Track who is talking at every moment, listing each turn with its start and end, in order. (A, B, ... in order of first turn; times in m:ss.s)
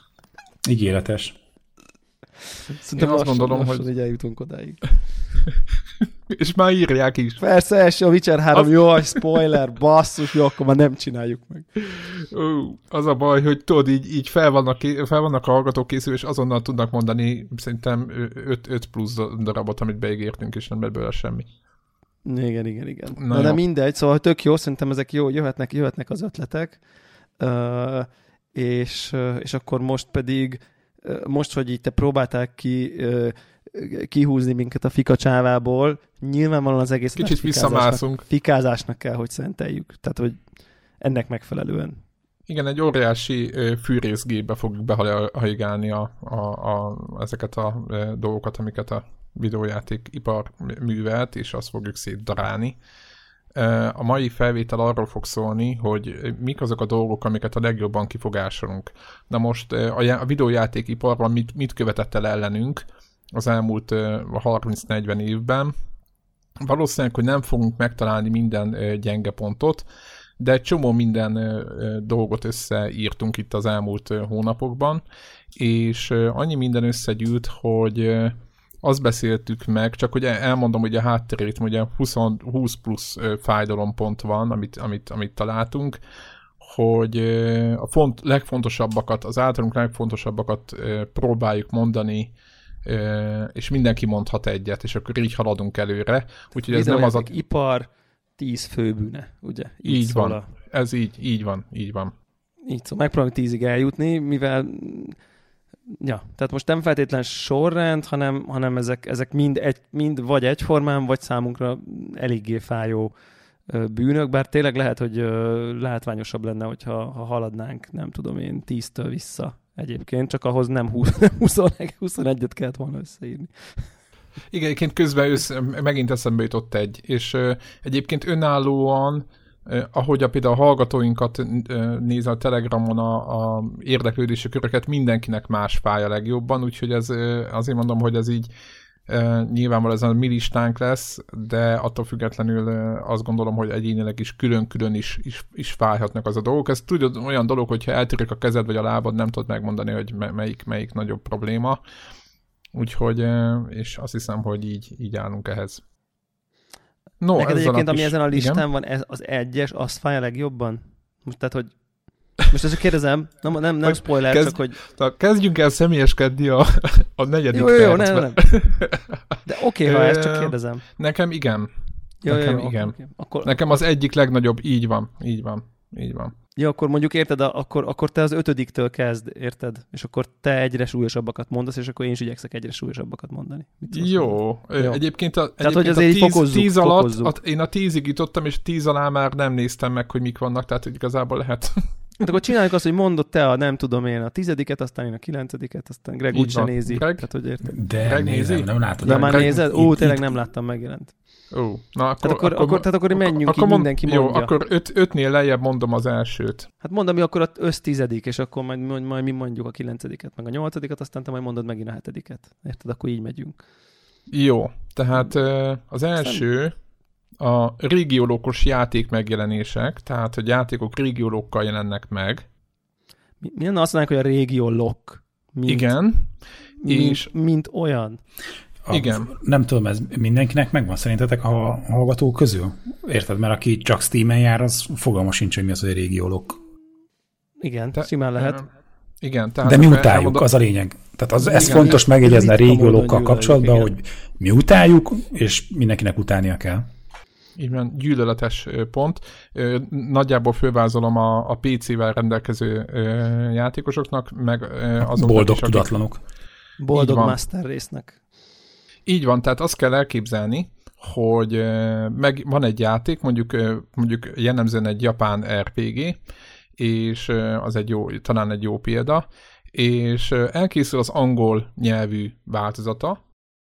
0:00.6-0:01.4 A
0:02.7-0:04.8 B
0:03.0-0:03.9 C
0:06.3-0:07.4 C
0:07.4-0:11.7 B
0:08.6-0:09.6 C
0:11.8-0:21.5 C
0:22.2-0:26.8 B
0:23.2-0:23.6 C
0:27.4-0:40.4 B
0:37.2-0:38.2 C
0:41.0-0:42.0 B
0:42.5-0:52.8 C
0:53.5-1:05.7 C
1:06.6-1:09.8 C
1:10.4-1:15.0 C
1:15.5-1:26.0 C
1:26.6-1:32.3 C
1:32.8-1:37.3 C
1:36.6-1:40.5 B
1:39.8-1:42.1 C
1:42.7-1:45.2 B
1:46.0-1:53.1 B
1:53.7-2:03.8 B
2:04.5-2:18.5 C
2:19.1-2:31.8 C
2:32.7-2:35.8 C
2:37.2-2:38.6 C
2:37.3-2:41.7 B
2:42.4-2:44.8 B
2:43.8-2:49.2 C
2:47.5-2:48.4 B
2:49.4-2:50.8 B
2:49.8-2:51.7 C
2:52.2-2:53.6 B
2:52.2-2:56.3 C
2:56.6-3:05.0 B
3:03.9-3:11.8 C
3:05.6-3:07.3 B
3:12.2-3:17.7 B
3:16.3-3:17.3 C
3:17.6-3:20.3 A
3:18.0-3:19.6 C
3:19.0-3:21.1 B
3:21.5-3:26.7 C
3:22.2-3:24.5 B
3:26.8-3:33.6 B
3:34.3-3:36.7 C
3:36.2-3:36.4 B
3:37.4-3:42.4 C
3:43.4-3:45.9 B
3:45.7-3:46.3 C
3:46.8-3:48.2 B
3:46.9-3:47.3 C
3:48.8-3:56.6 A
3:48.9-3:49.3 C
3:57.6-3:58.6 B
3:58.4-3:58.6 C
3:59.2-4:00.4 C
3:59.6-4:06.9 A
4:01.4-4:03.9 B
4:01.6-4:01.9 C
4:07.6-4:16.0 C
4:15.0-4:16.2 A
4:16.8-4:18.2 B
4:16.9-4:17.3 C
4:19.0-4:26.2 C
4:26.8-4:33.2 C